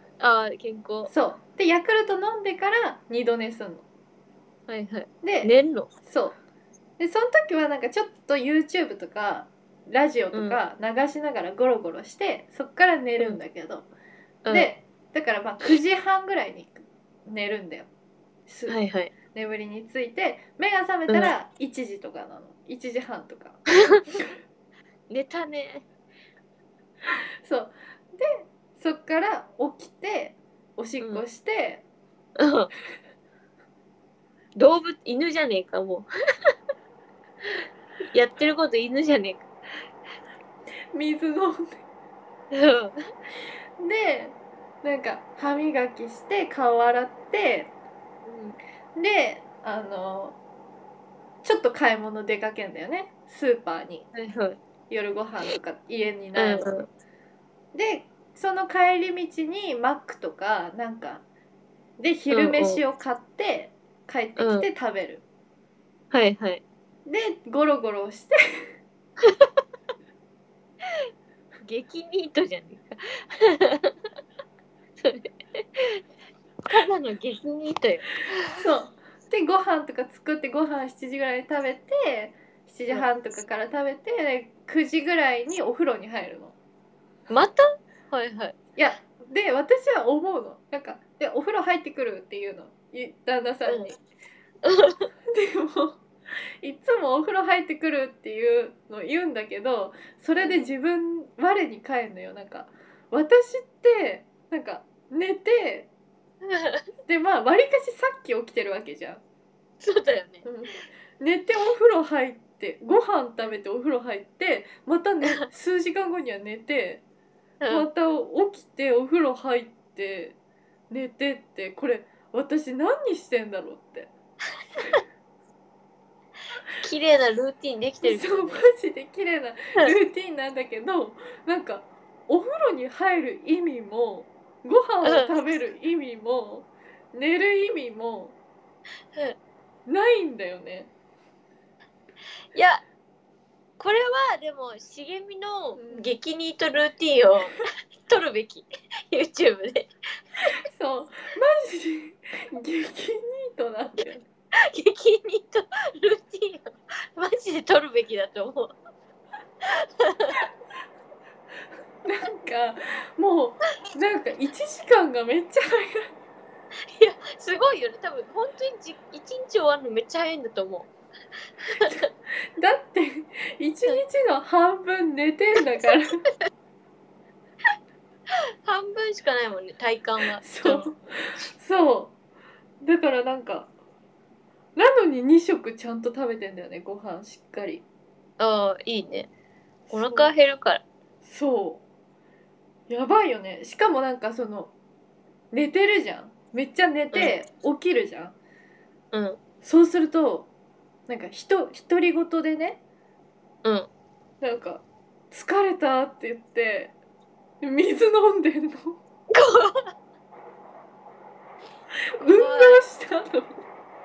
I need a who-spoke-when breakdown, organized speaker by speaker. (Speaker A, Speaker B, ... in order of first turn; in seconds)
Speaker A: 0.2-1.1, 4.7-5.9, 10.3-10.6, 14.4-14.7, 18.7-19.1, 25.1-25.9, 32.4-32.7, 34.6-36.1, 38.1-39.5, 42.5-43.0, 48.3-48.6, 54.1-54.6, 56.4-56.9, 62.3-62.8, 64.4-64.7, 66.1-66.6, 69.2-69.5, 71.7-74.0, 75.0-76.0, 76.7-78.2, 87.3-88.6, 93.7-94.0, 94.7-95.1, 100.4-100.7, 106.4-106.8, 109.8-110.5, 117.6-117.9, 126.8-128.7, 135.0-135.4, 142.5-142.8, 143.8-149.9, 154.6-158.7, 159.8-160.4, 166.9-170.9, 171.7-172.0, 178.6-180.9, 188.4-189.3, 189.9-190.8, 199.1-199.4, 203.6-203.9, 209.3-209.9, 212.3-212.8
Speaker B: 1.1-3.9, 5.2-5.5, 6.1-6.4, 7.0-13.9, 14.5-17.9, 18.5-18.8, 19.3-24.4, 27.4-31.9, 40.9-41.8, 43.8-47.7, 49.0-50.4, 51.4-54.1, 54.9-56.8, 57.7-61.2, 62.0-65.2, 67.1-68.7, 78.5-86.5, 88.8-94.0, 95.3-96.0, 96.6-105.9, 107.1-109.2, 110.5-117.0, 117.7-120.4, 120.9-124.1, 128.0-138.4, 139.9-140.9, 145.8-146.2, 150.7-154.2, 162.1-166.1, 171.8-176.2, 180.4-182.1, 182.8-183.7, 184.8-187.8, 189.9-190.3, 191.2-191.8, 192.9-194.7, 195.5-198.4, 199.6-200.5, 201.1-202.8, 204.4-207.0, 207.6-209.0, 212.2-213.7